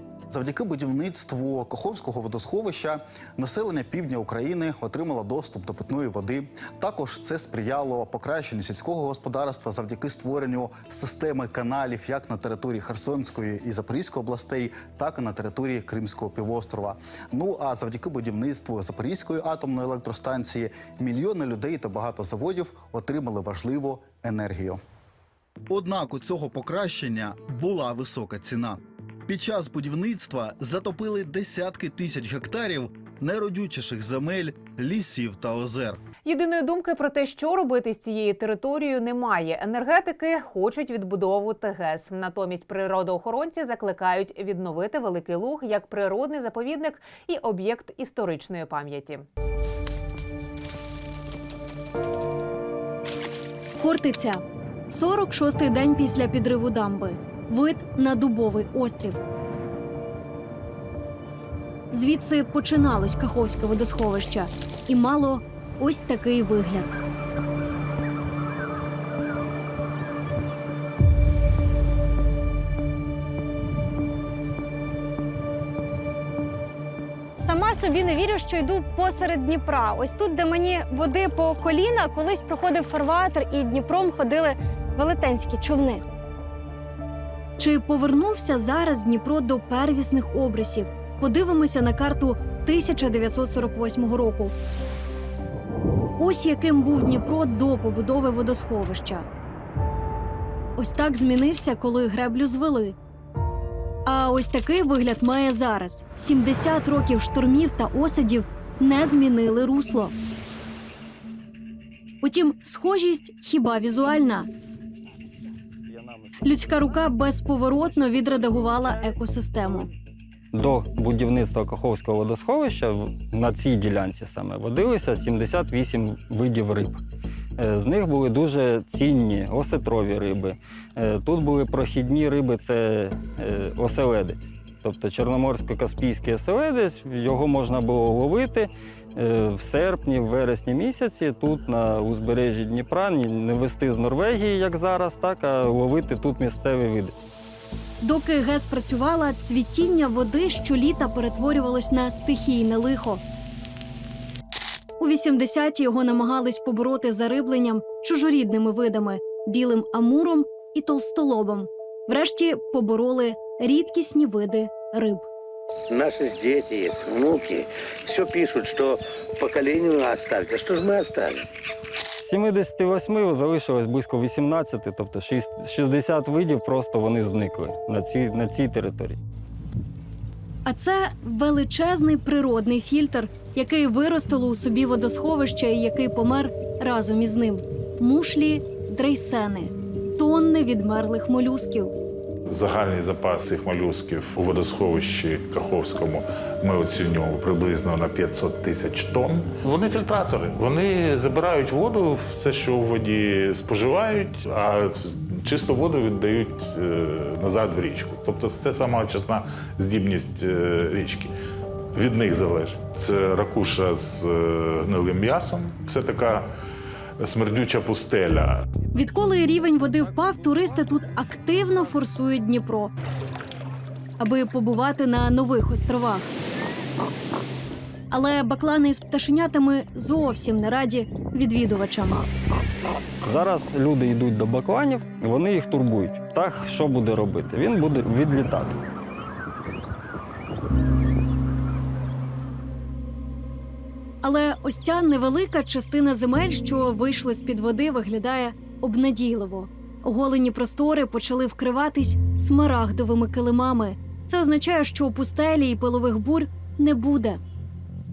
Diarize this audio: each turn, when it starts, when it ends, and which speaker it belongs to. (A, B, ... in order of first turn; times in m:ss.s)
0:00.3-0:24.8 A
0:25.7-0:36.0 A
0:36.2-0:49.3 B
0:53.8-0:59.2 C
1:01.9-1:07.0 C
1:17.4-1:26.0 D
1:27.6-1:34.5 C
1:36.2-1:39.2 C
1:40.8-1:42.9 C
1:44.1-1:50.1 C
1:52.2-1:54.5 C
1:56.4-1:59.9 C
2:00.5-2:07.0 E
2:07.6-2:27.1 E
2:28.0-2:33.2 C
2:35.0-2:45.3 C
2:45.9-2:51.5 F
2:52.2-2:59.2 E
3:00.7-3:11.9 C
3:12.5-3:31.3 G
3:32.0-3:36.5 G
3:37.2-3:38.6 G
3:38.9-3:42.9 C
3:44.2-3:46.3 C
3:48.1-3:52.3 C
3:53.2-3:58.8 E
4:04.2-4:17.4 C